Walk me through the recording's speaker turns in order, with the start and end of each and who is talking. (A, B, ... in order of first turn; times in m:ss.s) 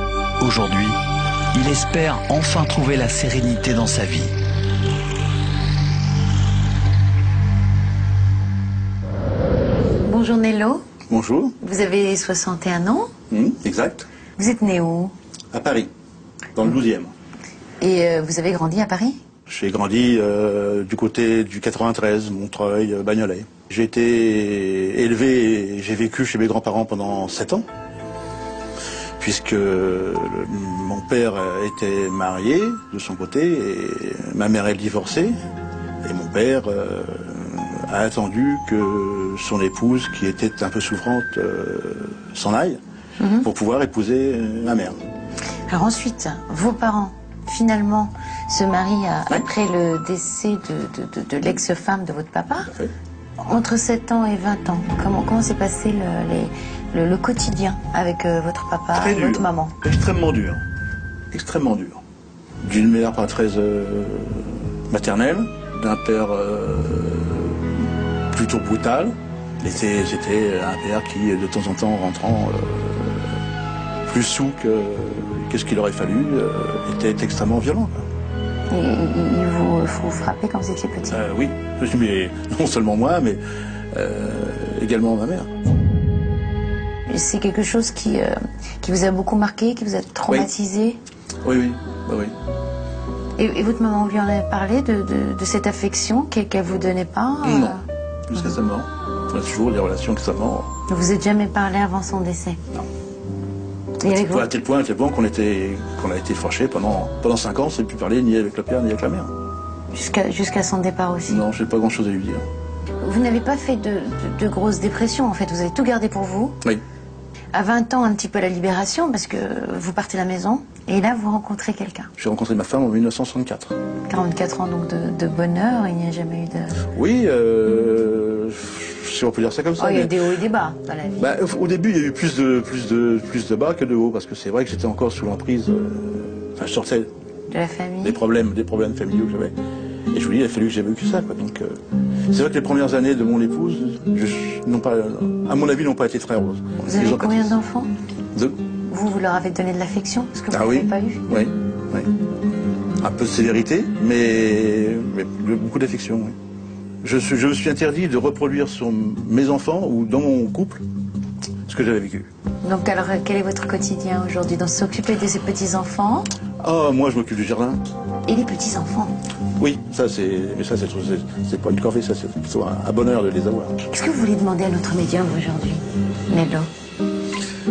0:00.4-0:01.0 A
0:01.5-0:04.3 A
0:10.0-0:10.8 B
0:11.1-0:11.5 C
0:11.6-0:13.1 B
0:13.3-0:14.1 C
0:14.4-0:15.1 B
0:15.5-0:15.9 C
0:16.5-0:17.1 C
0:17.8-0:19.2 B
0:19.5-0:27.7 C
0:29.2-0:35.3 C
0:36.0-0:42.8 C
0:43.2-0:43.4 B
0:43.4-0:45.0 C
0:45.7-0:52.8 B
0:53.4-0:59.8 B
0:58.9-1:00.6 C
1:01.3-1:02.0 C
1:02.6-1:07.6 C
1:08.3-1:13.3 C
1:14.1-1:18.0 C
1:18.7-1:21.2 B
1:21.1-1:23.4 C
1:23.9-1:25.5 C
1:27.1-1:31.0 B
1:31.4-1:32.3 C
1:33.4-1:37.8 B
1:37.4-1:37.8 C
1:38.3-1:40.7 C
1:40.9-1:42.6 B
1:44.0-1:44.5 B
1:44.0-1:49.3 C
1:49.9-1:51.4 B
1:51.3-1:52.4 C
1:53.0-1:56.6 B
1:57.5-2:02.1 B
2:02.2-2:03.8 C
2:04.1-2:06.9 B
2:06.9-2:10.2 C
2:09.8-2:11.3 B
2:11.2-2:17.1 C
2:17.5-2:18.2 B
2:18.0-2:19.5 C
2:20.1-2:21.8 C
2:22.3-2:27.5 C
2:26.8-2:27.9 B
2:28.9-2:31.2 B
2:30.5-2:32.1 C
2:33.0-2:36.3 C
2:37.0-2:40.8 C
2:41.7-2:42.3 C
2:42.6-2:46.3 B
2:46.6-2:47.8 C
2:48.3-2:49.1 B
2:49.6-2:53.8 C
2:53.8-2:56.7 B